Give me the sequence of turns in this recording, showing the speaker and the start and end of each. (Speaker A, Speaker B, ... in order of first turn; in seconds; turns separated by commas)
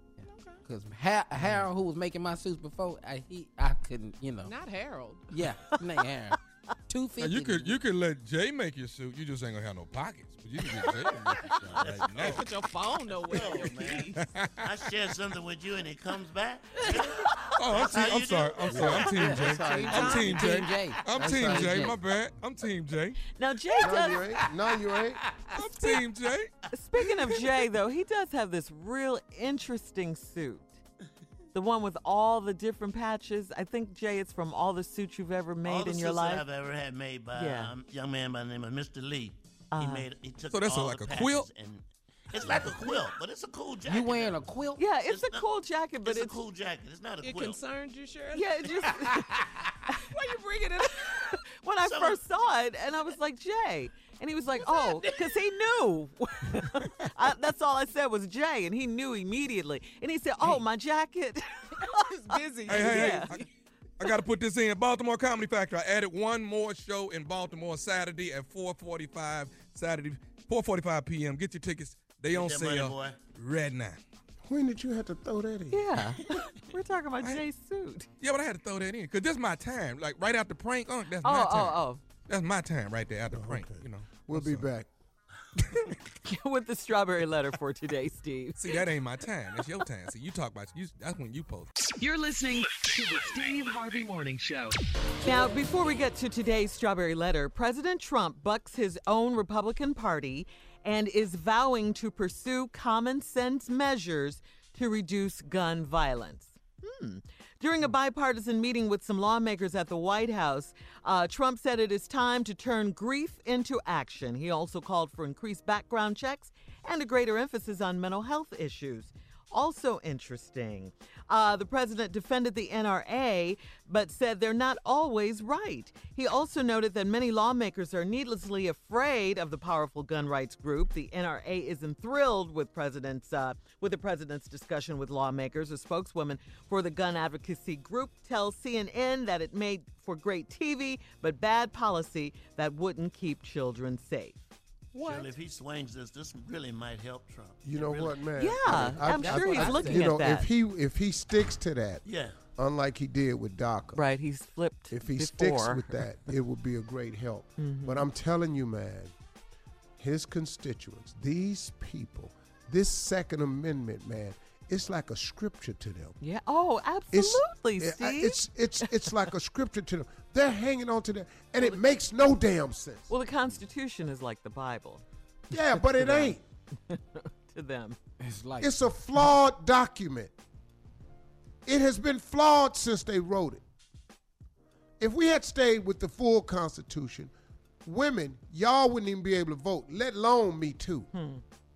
Speaker A: 0.2-0.6, Speaker B: 0.6-4.5, Speaker A: 4.4-5.3, Speaker B: 5.3-6.4, Speaker B: 6.9-7.8, Speaker C: 7.2-12.5, Speaker D: 11.4-12.5, Speaker A: 12.2-14.2, Speaker D: 13.2-19.2, Speaker C: 14.2-14.7, Speaker A: 16.8-17.2, Speaker C: 17.6-23.2, Speaker B: 18.7-22.0, Speaker E: 19.6-20.1, Speaker A: 19.8-20.6, Speaker E: 21.1-21.9, Speaker F: 23.4-24.2, Speaker E: 23.8-25.2, Speaker C: 25.5-26.5, Speaker F: 26.7-30.8, Speaker F: 31.5-36.4, Speaker D: 35.6-44.5, Speaker F: 37.3-37.7, Speaker F: 39.7-40.1, Speaker C: 40.5-41.5, Speaker B: 43.9-44.9, Speaker F: 44.8-46.4, Speaker D: 45.0-45.5, Speaker D: 46.0-47.6, Speaker A: 47.2-49.4, Speaker F: 48.3-49.3, Speaker A: 50.1-51.3, Speaker F: 51.6-63.3, Speaker D: 51.8-52.2, Speaker A: 54.6-55.3, Speaker A: 62.1-63.5, Speaker C: 62.6-63.5, Speaker C: 64.0-74.0, Speaker D: 72.3-73.2, Speaker E: 74.4-76.1, Speaker F: 75.7-78.1, Speaker C: 78.2-84.7, Speaker F: 81.2-82.0, Speaker E: 83.3-84.9, Speaker F: 86.2-88.8, Speaker C: 88.6-91.7, Speaker G: 92.0-94.8, Speaker F: 95.2-144.4, Speaker A: 144.9-145.3, Speaker D: 144.9-148.2, Speaker E: 147.6-152.0, Speaker F: 148.4-150.5, Speaker B: 148.7-150.2, Speaker D: 152.0-152.4, Speaker E: 152.6-154.0, Speaker F: 153.9-155.9, Speaker E: 154.9-159.1, Speaker F: 157.6-158.0, Speaker E: 160.0-166.2, Speaker F: 166.2-169.1, Speaker E: 167.1-173.1, Speaker F: 173.1-175.0, Speaker E: 175.5-176.4, Speaker F: 175.8-176.4, Speaker F: 176.9-178.0, Speaker B: 178.2-178.7, Speaker E: 178.6-180.3, Speaker E: 181.7-183.6, Speaker E: 185.0-187.3, Speaker E: 187.8-191.1, Speaker F: 191.1-191.4